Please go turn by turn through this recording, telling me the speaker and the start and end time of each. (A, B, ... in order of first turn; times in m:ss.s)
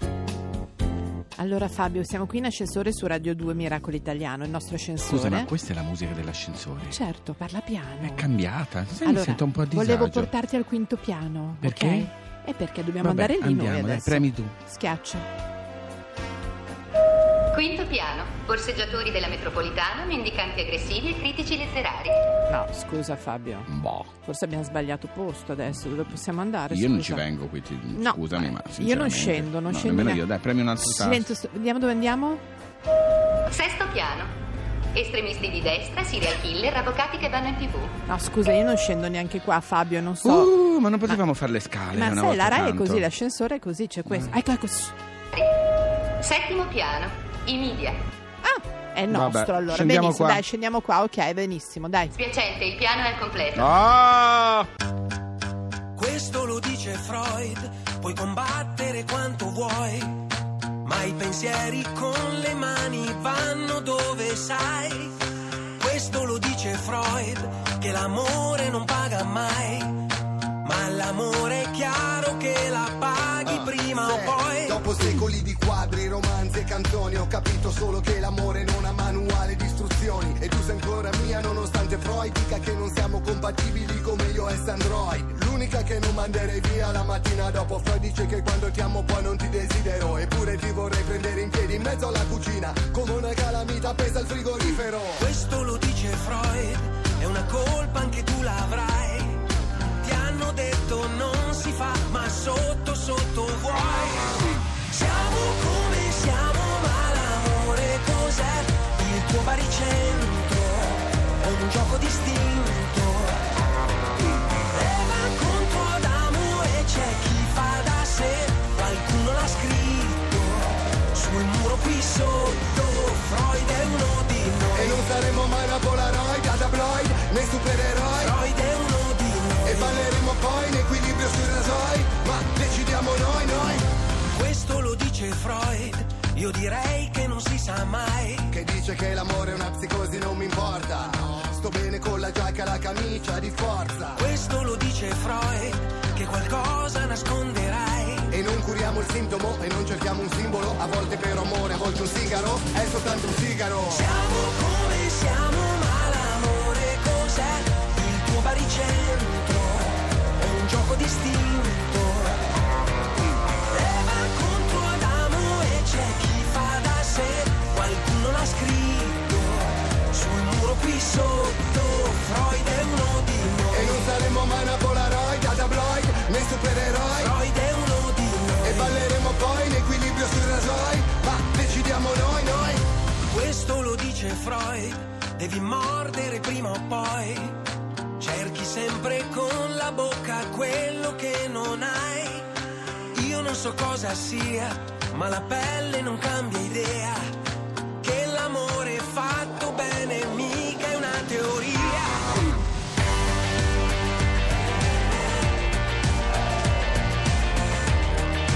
0:01.4-0:05.5 A
0:05.0-0:07.0 B
0:06.9-0:08.3 A
0:08.0-0:10.3 B
0:09.0-0:15.2 A
0:11.6-0:12.1 B
0:13.0-0:14.5 B
0:17.5-0:22.2 C
0:22.5-0:23.7 A
0:23.7-0:24.1 B
0:24.2-0:27.2 A
0:26.7-0:31.3 B
0:27.9-0:30.2 A
0:30.8-0:32.4 A
0:33.5-0:34.3 C
0:34.9-0:37.9 C
0:38.1-0:40.5 A
0:40.2-0:43.0 B
0:41.9-0:44.9 A
0:44.1-0:44.4 B
0:46.2-0:48.0 C
0:48.4-0:52.1 A
0:49.1-0:50.4 B
0:52.1-0:53.7 C
0:53.5-0:54.7 B
0:55.9-1:00.2 D
1:00.8-1:05.1 D
1:05.8-1:10.0 D
1:10.6-1:14.8 D
1:13.4-1:35.2 E
1:35.2-1:39.4 D
1:40.0-1:53.4 D
1:54.7-2:05.1 D
2:04.7-2:08.4 E
2:08.2-2:10.1 D
2:09.6-2:13.8 E
2:14.3-2:18.6 D
2:18.5-2:24.2 E
2:24.1-2:28.4 D
2:28.3-2:34.1 E
2:33.8-2:42.4 D
2:43.7-2:54.0 D
2:53.7-2:57.4 E
2:57.2-2:59.1 D
2:58.6-3:02.8 E
3:03.3-3:07.6 D
3:08.2-3:12.5 D
3:13.1-3:17.3 D
3:18.0-3:22.4 D